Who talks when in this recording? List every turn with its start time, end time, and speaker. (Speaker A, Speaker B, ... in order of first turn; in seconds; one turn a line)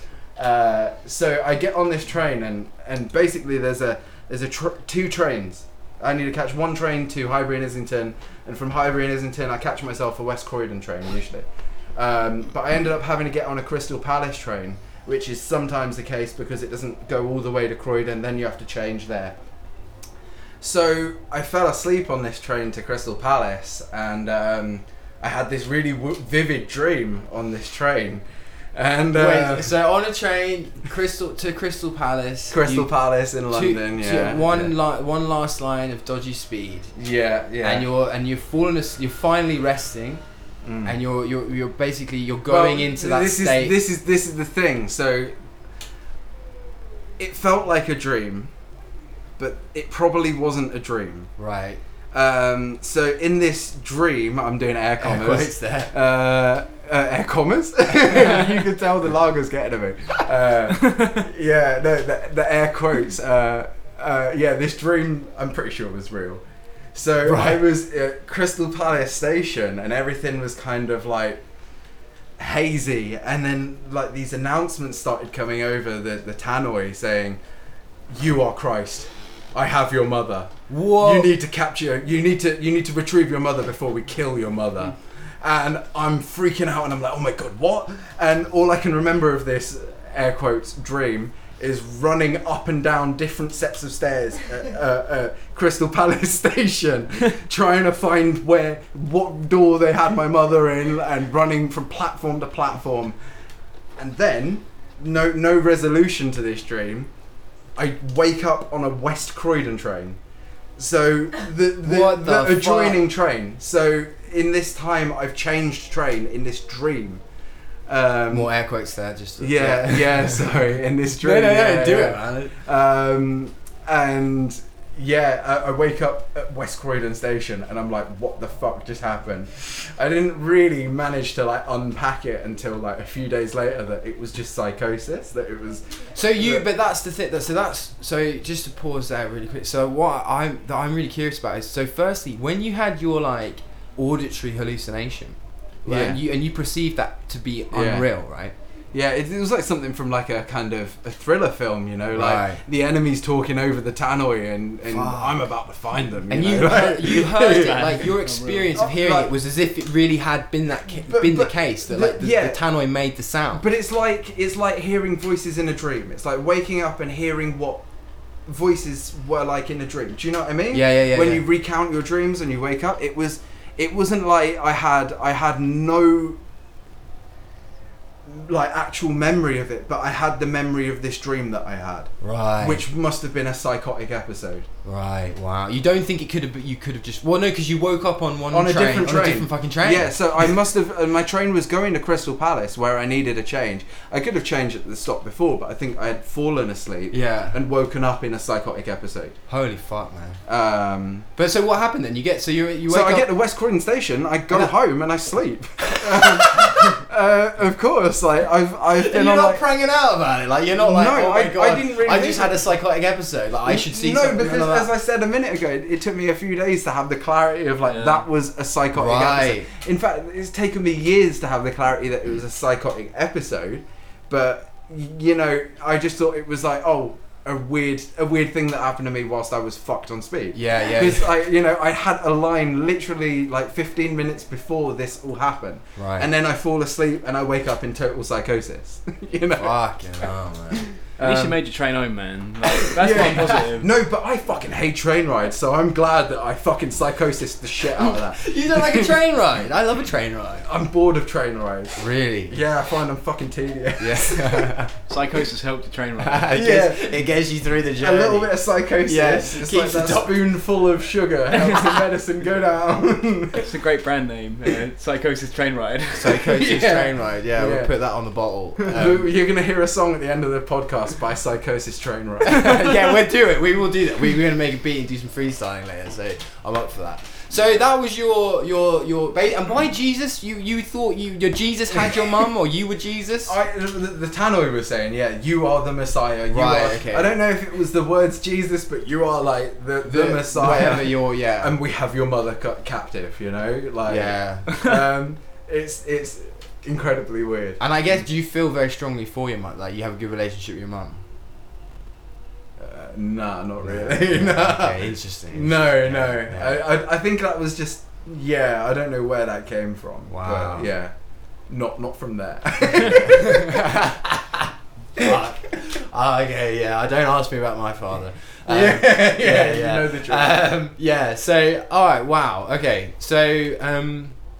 Speaker A: 0.4-19.4
Speaker A: 20.6-28.2
Speaker A: 28.7-29.7
Speaker B: 29.1-32.9
Speaker A: 32.5-34.7
Speaker B: 33.5-36.9
Speaker A: 36.9-37.9
Speaker B: 37.6-40.2
Speaker A: 40.6-40.9
Speaker B: 40.8-43.8
Speaker A: 42.5-45.3
Speaker A: 47.2-48.5
Speaker A: 49.4-51.3
Speaker B: 51.4-51.8
Speaker A: 52.1-66.4
Speaker B: 55.0-55.9
Speaker C: 60.8-61.2
Speaker A: 66.9-71.4
Speaker B: 67.2-67.6
Speaker A: 72.4-77.4
Speaker A: 78.1-103.2
Speaker B: 80.7-81.3
Speaker A: 104.0-107.1
Speaker A: 107.8-110.2
Speaker A: 110.8-117.2
Speaker B: 111.8-113.0
Speaker A: 117.9-118.5
Speaker B: 118.3-120.4
Speaker A: 119.4-135.8
Speaker B: 121.2-122.5
Speaker B: 136.1-148.5
Speaker A: 136.3-136.7
Speaker A: 145.8-146.2
Speaker A: 147.7-148.1
Speaker A: 148.9-157.8
Speaker B: 152.1-152.6
Speaker B: 154.9-155.4
Speaker B: 156.3-163.6
Speaker C: 156.8-158.8
Speaker A: 158.7-159.3
Speaker A: 161.1-162.6
Speaker A: 163.5-167.8
Speaker A: 168.4-176.4
Speaker B: 170.7-171.4
Speaker A: 178.2-184.7
Speaker B: 182.2-182.8
Speaker B: 184.8-190.5
Speaker A: 188.5-199.4
Speaker B: 197.1-197.6
Speaker B: 199.5-200.4
Speaker A: 200.4-201.3
Speaker B: 201.3-203.3
Speaker A: 202.9-209.6
Speaker B: 205.8-206.9
Speaker B: 208.9-214.9
Speaker A: 210.8-212.6
Speaker A: 213.7-239.8
Speaker C: 217.8-218.2
Speaker B: 218.9-219.7
Speaker B: 230.5-231.3
Speaker B: 235.9-236.3
Speaker B: 239.6-240.9
Speaker A: 241.0-241.5
Speaker C: 241.2-243.9
Speaker A: 242.9-249.1
Speaker B: 248.0-250.7
Speaker A: 250.7-254.8
Speaker B: 252.0-252.6
Speaker B: 254.0-254.9
Speaker C: 255.1-256.6
Speaker B: 256.2-260.4
Speaker A: 256.5-257.1
Speaker A: 258.0-263.7
Speaker C: 263.6-266.6
Speaker B: 266.1-269.3
Speaker A: 266.6-267.9
Speaker A: 268.8-272.9
Speaker B: 272.5-283.5
Speaker A: 283.4-297.8
Speaker B: 286.5-287.3
Speaker B: 290.1-291.7
Speaker B: 294.1-294.7
Speaker B: 297.8-301.2
Speaker A: 302.8-311.1
Speaker B: 303.8-306.8
Speaker B: 310.3-310.9
Speaker A: 311.7-313.8
Speaker B: 313.1-314.5
Speaker B: 315.1-324.4
Speaker A: 318.7-320.6